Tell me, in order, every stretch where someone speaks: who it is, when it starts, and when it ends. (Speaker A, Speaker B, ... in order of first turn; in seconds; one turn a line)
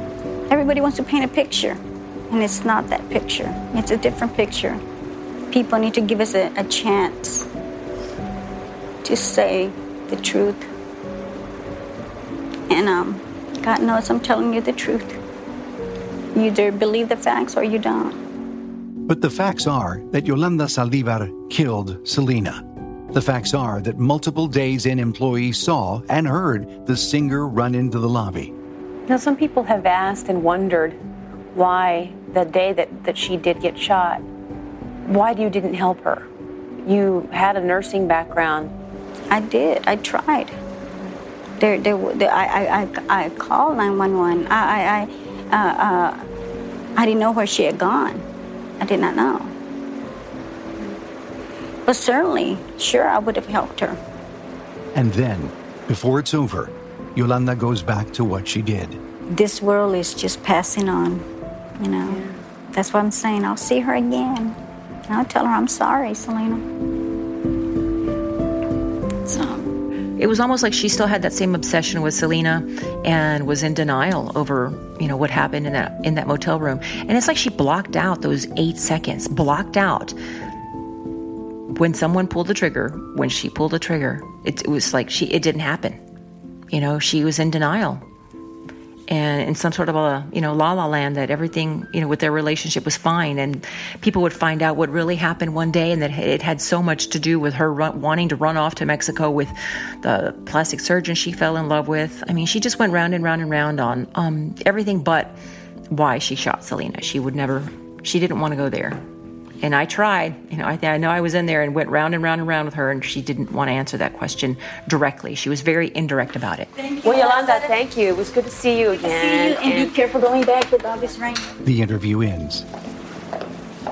Speaker A: 0.5-4.8
Speaker A: 5.5-7.5
Speaker A: 9.0-10.7
Speaker A: 12.7-15.2
Speaker A: 16.3-18.2
Speaker B: 19.1-28.5
Speaker C: 29.1-31.0
Speaker C: 31.5-34.2
Speaker C: 35.0-36.3
Speaker C: 36.8-38.7
Speaker A: 39.3-40.5
Speaker A: 41.6-46.2
Speaker A: 47.0-48.2
Speaker A: 48.8-49.5
Speaker A: 51.9-54.0
Speaker B: 54.9-59.0
Speaker A: 59.3-61.3
Speaker A: 61.8-64.5
Speaker A: 65.1-66.6
Speaker A: 69.2-69.7
Speaker D: 70.2-80.1
Speaker D: 81.7-86.0
Speaker D: 86.7-88.0
Speaker D: 89.1-105.4
Speaker D: 105.9-109.0
Speaker D: 109.6-116.7
Speaker A: 116.8-117.8
Speaker C: 117.0-119.9
Speaker A: 118.9-121.5
Speaker B: 121.6-122.7